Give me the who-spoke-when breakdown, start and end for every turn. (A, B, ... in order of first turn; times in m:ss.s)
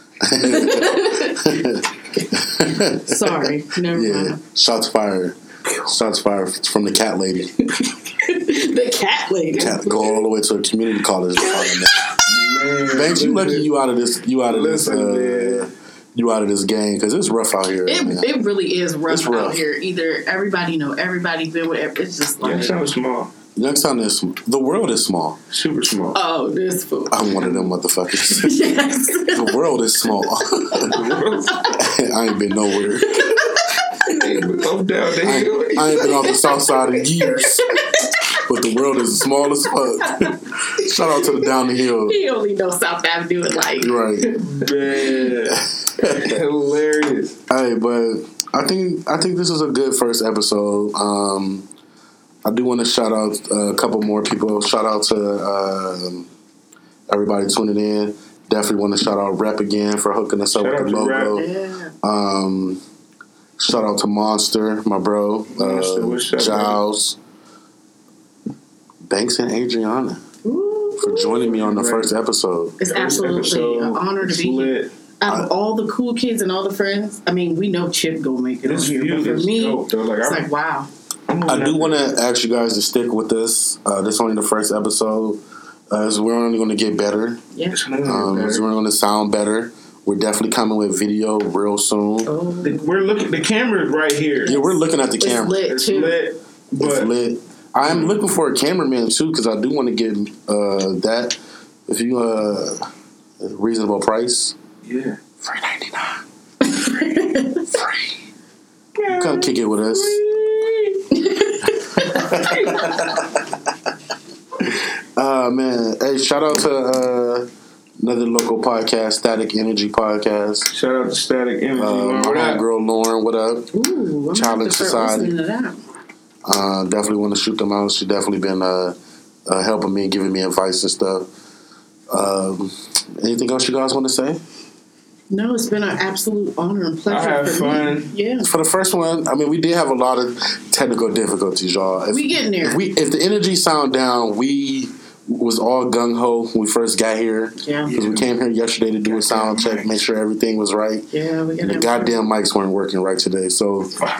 0:00.2-0:07.6 A
0:00.3-0:01.7 B
0:02.7-0:04.4 B
0:07.8-0:10.1 B
0:09.5-0:12.1 A
0:12.2-0:13.7 C
0:12.9-0:18.3 A
0:14.4-0:15.7 C
0:17.9-0:22.8 B
0:19.1-0:19.6 A
0:22.4-0:23.3 C
0:23.6-0:25.4 A
0:25.5-0:26.2 C
0:26.1-0:27.2 B
0:27.1-0:28.6 A
0:27.3-0:27.7 C
0:28.2-0:29.6 B
0:29.3-0:31.2 A
0:30.6-0:31.8 B
0:30.9-0:31.7 C
0:31.8-0:33.4 A
0:32.4-0:34.2 B
0:34.0-0:36.3 C
0:35.2-0:37.8 A
0:36.1-0:38.4 B
0:38.3-0:42.2 A
0:39.6-0:41.5 B
0:42.0-0:44.6 B
0:43.8-0:44.4 A
0:44.5-0:47.4 C
0:45.5-0:46.4 A
0:47.5-0:51.6 A
0:52.4-0:56.3 A
0:57.1-1:01.4 A
1:00.5-1:01.4 C
1:01.3-1:01.9 B
1:02.0-1:02.8 A
1:03.6-1:07.2 A
1:05.5-1:06.8 C
1:09.0-1:10.2 A
1:10.4-1:11.5 B
1:11.0-1:12.8 A
1:11.5-1:12.1 C
1:12.8-1:20.9 B
1:12.9-1:14.9 C
1:18.6-1:20.5 C
1:21.3-1:22.0 C
1:21.4-1:27.4 A
1:27.7-1:28.6 C
1:28.0-1:32.3 A
1:32.2-1:32.9 B
1:32.6-1:34.6 C
1:34.4-1:36.2 B
1:34.4-1:35.6 A
1:35.7-1:37.1 C
1:36.8-1:42.9 A
1:37.8-1:38.2 C
1:43.4-1:44.6 A
1:44.8-1:45.2 C
1:45.4-1:46.2 A
1:46.6-1:47.7 B
1:47.7-1:48.1 A
1:49.0-1:51.0 C
1:49.1-1:50.2 A
1:51.1-1:53.0 B
1:52.0-1:53.3 A
1:54.6-1:57.5 A
1:58.0-2:00.7 A
2:00.7-2:02.6 C
2:01.7-2:03.7 A
2:03.7-2:05.8 B
2:04.3-2:05.3 A
2:06.4-2:08.9 A
2:09.4-2:11.3 A
2:12.1-2:14.4 A
2:15.3-2:18.5 B
2:17.1-2:18.1 C
2:18.4-2:31.1 A
2:22.1-2:22.8 B
2:27.6-2:27.9 B
2:27.8-2:28.3 C
2:29.0-2:30.0 C
2:31.1-2:32.2 B
2:31.6-2:34.0 A